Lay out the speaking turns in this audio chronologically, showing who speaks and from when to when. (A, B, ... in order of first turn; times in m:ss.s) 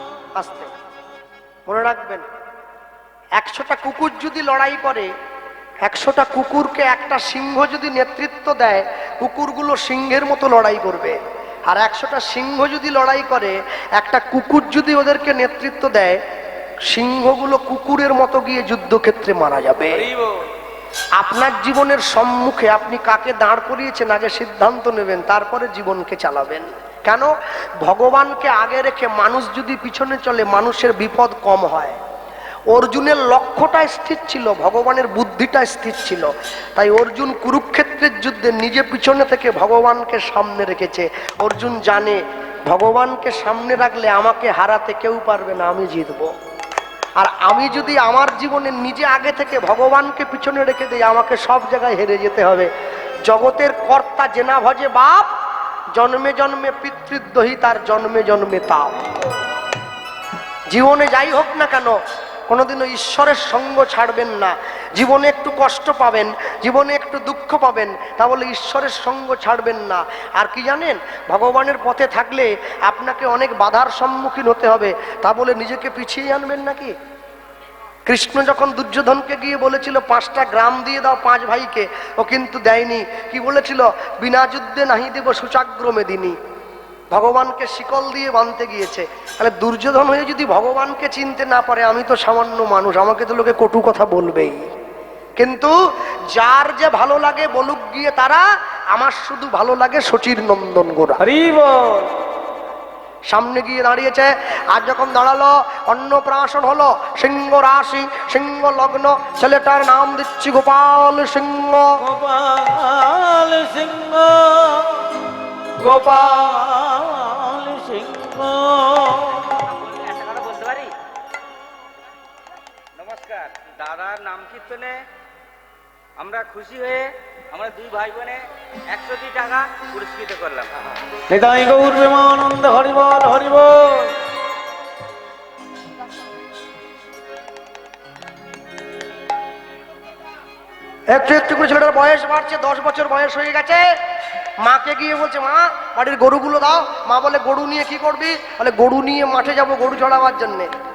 0:00.4-0:00.7 A
0:01.7-0:02.2 A
0:03.4-0:05.1 A
0:05.8-0:16.2 A
0:16.9-0:20.1 A
0:20.0-0:20.3 B
0:21.2-0:27.3 A
0:27.8-0:32.0 A
0:32.7-0:46.3 A
0:47.2-0:52.7 A
0:53.2-0:55.3 A
0:55.9-0:59.0 A
1:00.7-1:02.0 A
1:02.5-1:16.9 A
1:18.0-1:26.4 A
1:27.1-1:34.7 A
1:35.4-1:35.7 A
1:36.3-1:41.2 A
1:41.2-1:42.1 B
1:43.3-1:52.0 A
1:52.0-1:55.1 B
1:55.8-1:59.6 B
1:59.6-2:00.9 C
2:03.0-2:05.0 C
2:06.2-2:10.8 C
2:11.3-2:14.2 B
2:21.1-2:23.9 A
2:24.6-2:30.7 A